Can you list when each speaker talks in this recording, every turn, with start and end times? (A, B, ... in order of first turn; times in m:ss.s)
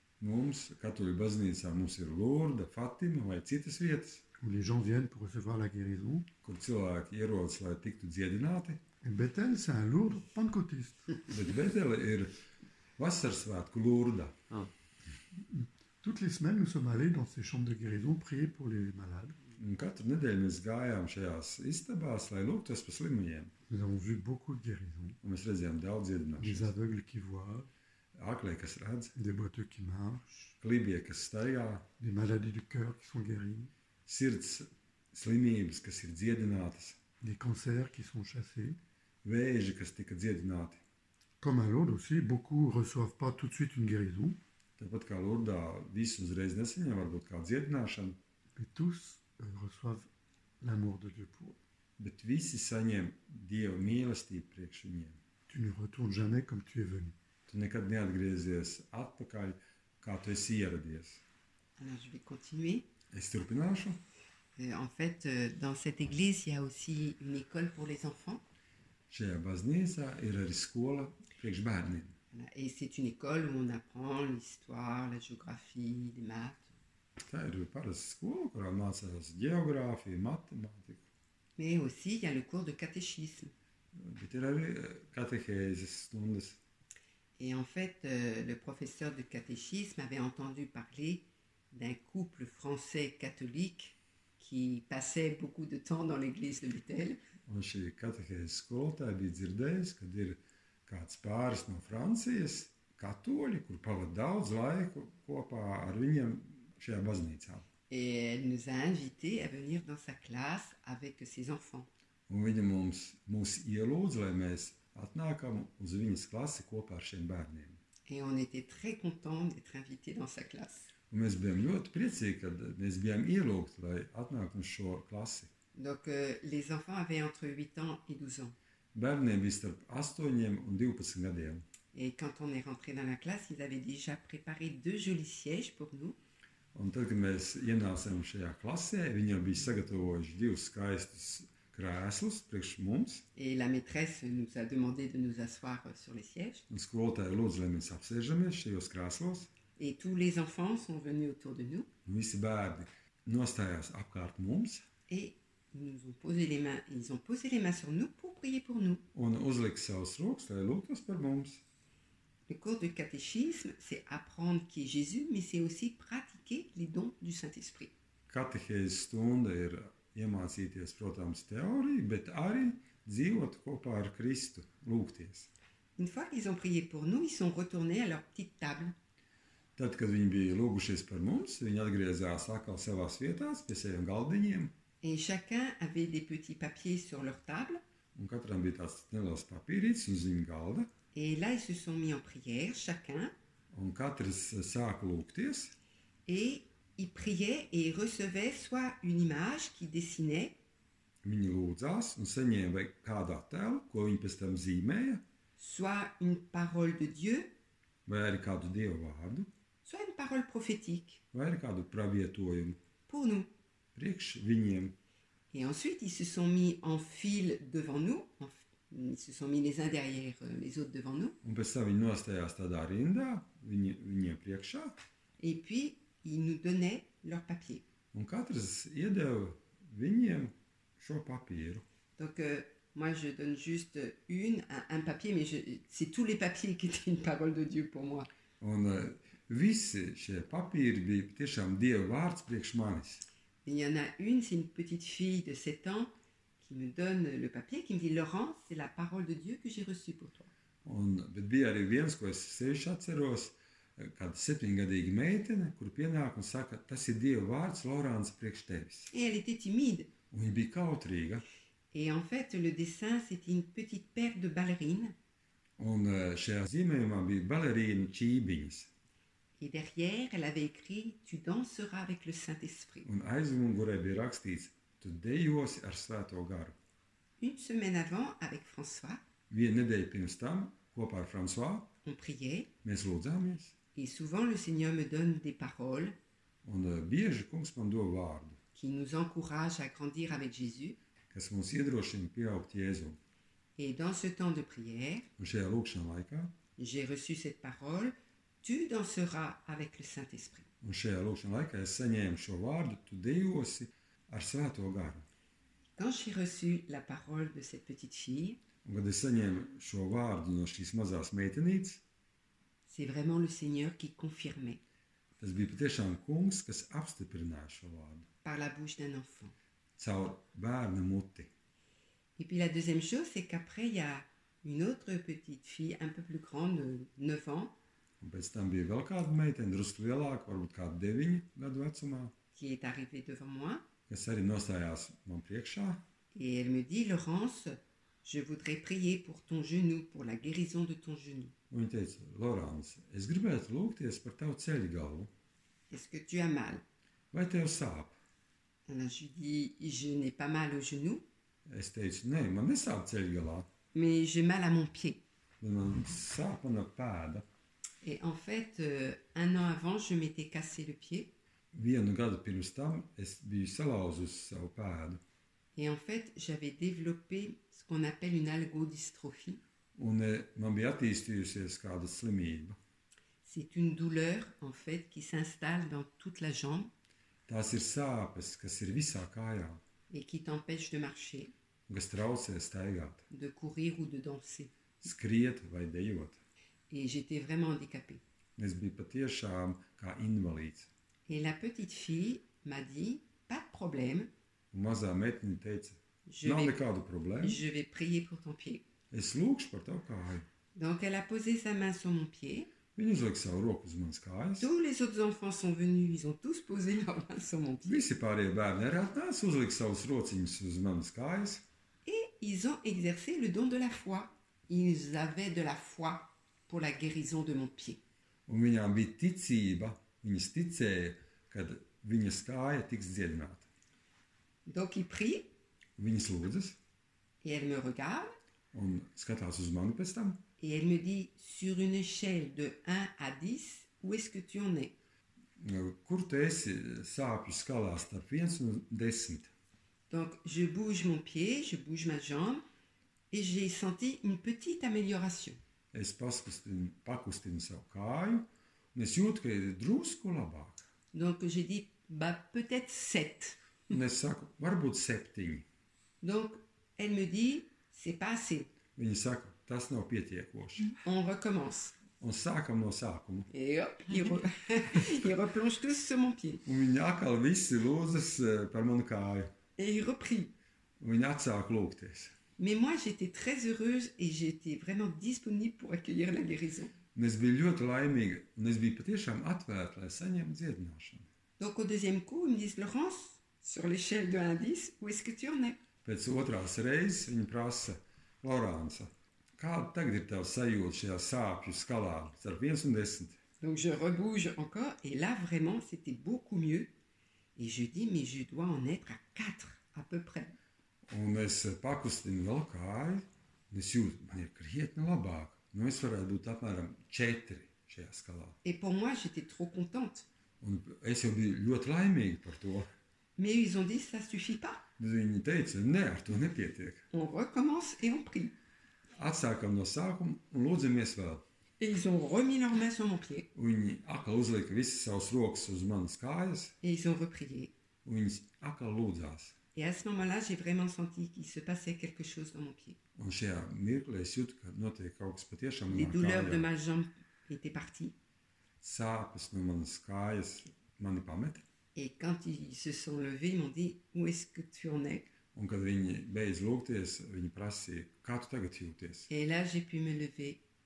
0:00.2-0:04.2 A
0:04.4-0:06.3 B
0:06.4-0:08.8 A
0:09.0-0:11.2 B
0:11.3-0:12.4 A
0:13.0-0:14.3 A
0:15.3-0:19.4 B
0:19.6-0:23.5 A
0:23.7-0:25.2 B
0:25.2-0:26.7 A
0:26.4-0:27.7 B
0:28.1-0:29.1 A
0:29.2-0:30.5 B
0:30.6-0:31.9 A
0:32.0-0:33.7 B
0:34.0-0:37.0 A
0:37.2-0:38.8 B
0:39.2-0:40.8 A
0:41.4-0:44.4 B
0:44.8-0:48.2 A
0:48.5-0:50.1 B
0:50.6-0:51.6 B
0:52.0-0:55.2 A
0:55.5-0:57.2 B
0:57.5-1:01.2 A
1:01.8-1:02.9 C
1:03.1-1:04.0 A
1:04.6-1:08.4 C
1:09.1-1:12.1 A
1:12.3-1:16.7 C
1:17.2-1:21.0 A
1:21.6-1:23.5 C
1:24.0-1:26.6 A
1:27.4-1:37.2 C
1:37.5-1:47.7 A
1:47.9-1:51.9 C
1:52.3-1:57.8 A
1:58.1-2:00.9 C
2:01.1-2:05.5 A
2:05.7-2:08.6 C
2:08.9-2:11.6 A
2:11.9-2:16.2 C
2:16.7-2:23.2 A
2:23.4-2:26.6 C
2:26.7-2:29.5 A
2:29.8-2:31.9 C
2:32.0-2:34.8 A
2:35.1-2:39.0 C
2:39.1-2:41.6 A
2:42.5-2:47.9 C
2:48.3-2:55.5 A
2:56.0-2:58.9 C
2:59.8-3:04.7 A
3:05.0-3:07.8 C
3:08.1-3:10.9 A
3:11.1-3:13.3 C
3:13.7-3:15.7 A
3:16.2-3:20.6 C
3:21.2-3:25.2 A
3:25.6-3:27.5 C
3:28.0-3:29.5 A
3:29.8-3:31.2 C
3:31.3-3:32.8 A
3:33.1-3:33.5 C
3:33.9-3:35.0 A
3:35.5-3:41.4 C
3:41.4-3:45.0 A
3:45.4-3:47.8 C
3:48.1-3:51.8 A
3:52.2-3:58.3 C
3:58.6-4:03.2 A
4:03.6-4:10.5 C
4:10.8-4:19.1 A
4:19.1-4:20.1 C
4:20.3-4:21.4 A
4:21.9-4:25.1 C
4:25.8-4:28.9 A
4:29.6-4:33.1 C
4:33.0-4:36.8 A
4:37.4-4:39.2 C
4:39.5-4:41.9 A
4:42.0-4:42.7 C
4:42.8-4:43.8 A
4:43.9-4:46.2 C
4:46.6-4:48.6 A
4:48.7-4:51.0 C
4:51.3-4:53.2 A
4:53.8-4:55.3 C
4:55.4-4:56.6 A
4:56.8-5:00.7 C
5:00.8-5:05.2 A
5:06.0-5:08.6 C
5:08.8-5:12.0 A
5:12.9-5:14.8 C
5:15.4-5:18.3 A
5:18.4-5:19.5 C
5:20.0-5:21.5 A
5:22.4-5:27.8 C
5:28.2-5:32.3 A
5:32.5-5:33.8 C
5:34.1-5:36.0 A
5:36.3-5:41.5 C
5:41.7-5:45.3 A
5:45.9-5:46.8 C
5:47.3-5:48.2 A
5:48.9-5:51.2 C
5:51.6-5:53.7 A
5:53.9-5:55.2 C
5:55.6-5:57.4 A
5:58.0-6:01.3 C
6:01.7-6:05.2 A
6:05.8-6:09.6 C
6:10.0-6:12.8 A
6:13.4-6:16.9 C
6:17.5-6:19.8 A
6:20.1-6:21.5 C
6:21.9-6:23.2 A
6:23.3-6:24.7 C
6:25.0-6:26.4 A
6:26.9-6:28.2 C
6:28.6-6:30.9 A
6:31.3-6:34.3 C
6:34.7-6:37.6 A
6:36.3-6:36.8 C
6:37.4-6:38.8 C
6:39.1-6:40.4 A
6:40.7-6:42.7 C
6:42.9-6:44.7 A
6:44.6-6:48.1 C
6:47.8-6:51.6 A
6:52.0-6:58.0 C
6:58.5-7:03.7 A
7:04.6-7:05.5 C
7:06.0-7:06.8 A
7:07.4-7:08.3 C
7:08.7-7:10.4 A
7:10.6-7:14.9 C
7:15.6-7:19.5 A
7:20.1-7:22.6 C
7:23.3-7:25.6 C
7:25.9-7:30.8 A
7:31.1-7:33.6 C
7:33.9-7:35.6 A
7:36.2-7:38.7 C
7:38.9-7:41.0 A
7:41.0-7:42.0 C
7:42.2-7:43.5 A
7:43.5-7:46.6 C
7:46.6-7:49.5 A
7:49.8-7:50.5 C
7:51.0-7:52.3 A
7:52.6-7:56.9 C
7:57.1-8:01.3 A
8:01.6-8:05.8 C
8:06.0-8:13.4 A
8:13.6-8:16.9 C
8:17.6-8:20.6 C
8:21.1-8:28.6 A
8:28.6-8:30.2 C
8:30.6-8:32.9 A
8:33.4-8:34.8 C
8:35.0-8:37.0 A
8:37.1-8:38.6 C
8:39.2-8:41.4 A
8:41.8-8:43.5 C
8:43.5-8:46.8 A
8:46.8-8:47.7 C
8:48.0-8:49.6 A
8:49.7-8:53.0 C
8:53.2-8:56.7 A
8:55.9-8:58.1 C
8:58.8-9:01.6 A
9:01.9-9:05.3 C
9:05.5-9:09.3 A
9:09.3-9:10.6 C